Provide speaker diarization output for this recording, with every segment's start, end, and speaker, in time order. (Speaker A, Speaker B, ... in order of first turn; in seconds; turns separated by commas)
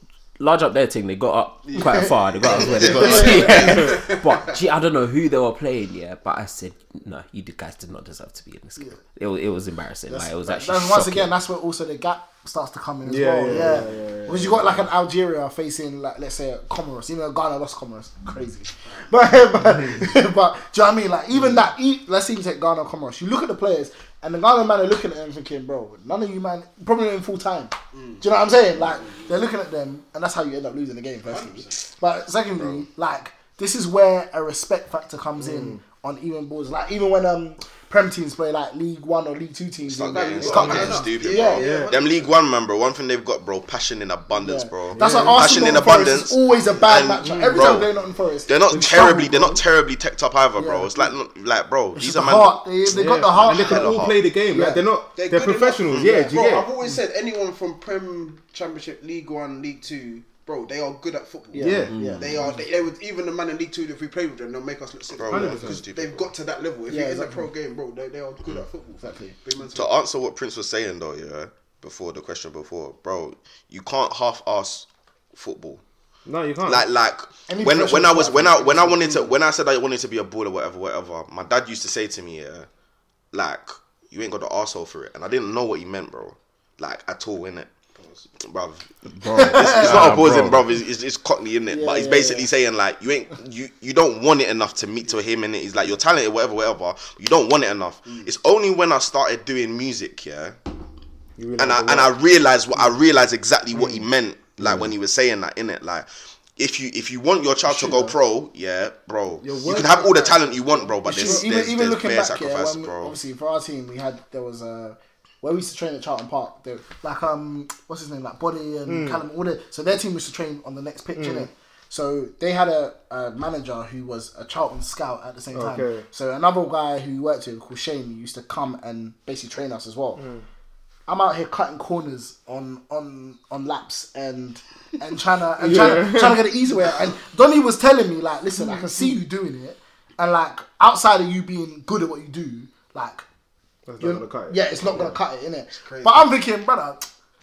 Speaker A: 0.4-11.3, Speaker B: 1.7-4.5, Speaker C: 2.9-3.6, Speaker C: 10.1-41.7, Speaker D: 13.0-14.9, Speaker B: 27.9-29.4, Speaker B: 31.3-31.8, Speaker E: 32.5-32.8, Speaker D: 35.4-35.8, Speaker E: 39.9-47.9, Speaker B: 40.0-42.4, Speaker D: 40.5-41.0, Speaker D: 41.5-41.9, Speaker C: 44.4-49.6, Speaker D: 44.9-45.9, Speaker B: 46.6-47.1, Speaker D: 47.2-47.8, Speaker E: 48.5-52.6, Speaker D: 48.7-49.4, Speaker C: 50.5-50.9, Speaker C: 51.9-54.0, Speaker D: 52.9-56.7, Speaker E: 53.4-54.2, Speaker B: 53.8-54.1, Speaker C: 54.5-54.8, Speaker B: 55.1-69.9, Speaker C: 56.0-56.4, Speaker C: 61.5-62.5, Speaker D: 61.6-62.0, Speaker A: 61.9-62.2, Speaker E: 65.2-66.3, Speaker D: 65.3-65.8, Speaker C: 66.9-67.5, Speaker C: 69.0-69.3, Speaker E: 69.7-75.8, Speaker D: 76.2-76.9, Speaker E: 76.6-82.7, Speaker C: 77.5-79.3, Speaker E: 83.3-87.7, Speaker B: 88.0-88.3, Speaker E: 88.4-100.5, Speaker A: 89.2-90.7, Speaker C: 89.4-90.1, Speaker C: 91.7-92.5, Speaker B: 98.0-98.3, Speaker D: 101.4-102.2, Speaker E: 101.6-113.1, Speaker C: 107.8-108.1, Speaker D: 109.4-111.4, Speaker C: 111.0-130.2, Speaker D: 118.8-119.2, Speaker D: 121.2-121.5, Speaker D: 125.5-126.0, Speaker D: 130.2-130.4, Speaker C: 131.1-143.2, Speaker D: 135.6-136.5, Speaker D: 138.6-139.1, Speaker D: 143.8-145.1, Speaker C: 144.0-147.1, Speaker B: 145.7-146.3